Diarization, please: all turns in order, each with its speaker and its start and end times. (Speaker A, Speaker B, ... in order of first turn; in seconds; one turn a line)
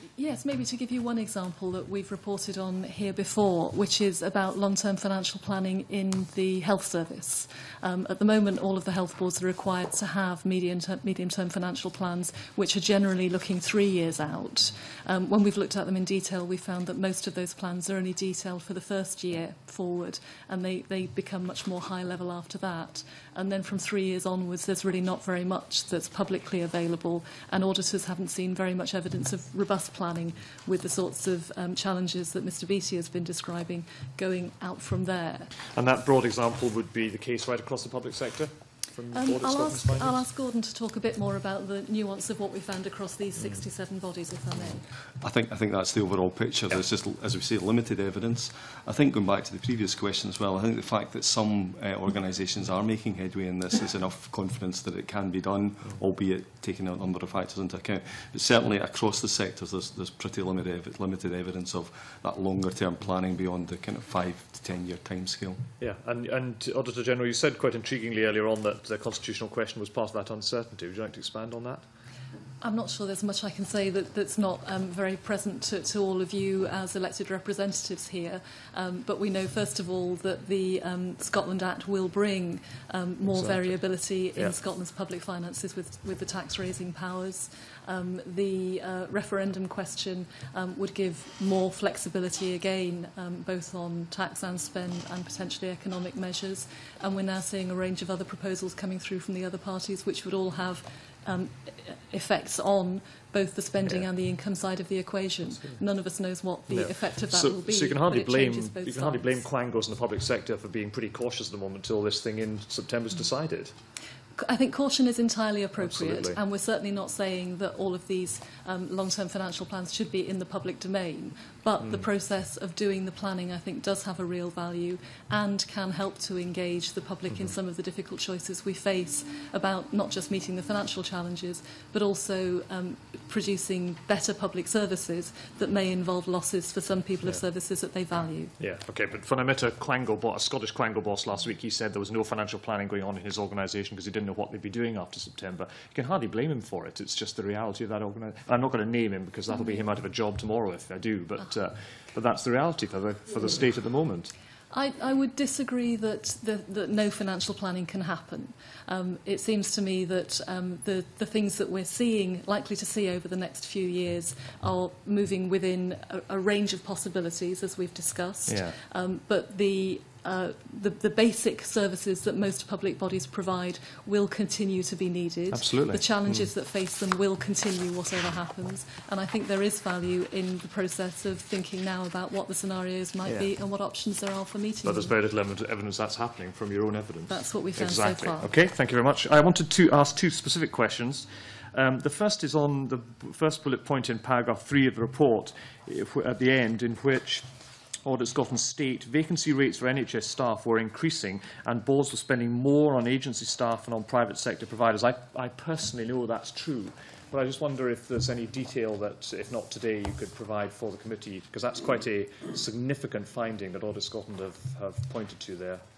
Speaker A: 0.2-35.6
Speaker B: 35.7-40.3
Speaker A: 39.1-44.9
Speaker C: 45.2-65.7
Speaker B: 65.8-71.8
Speaker A: 72.6-109.4
Speaker B: 83.3-83.8
Speaker B: 106.7-113.8
Speaker A: 114.4-138.5
Speaker B: 115.8-116.4
Speaker B: 121.8-122.1
Speaker B: 127.3-127.6
Speaker B: 138.6-154.3
Speaker A: 149.5-149.9
Speaker A: 154.7-185.1
Speaker B: 168.5-168.8
Speaker B: 175.5-176.5
Speaker B: 183.2-183.5
Speaker B: 184.8-197.5
Speaker A: 187.3-188.5
Speaker B: 198.0-215.8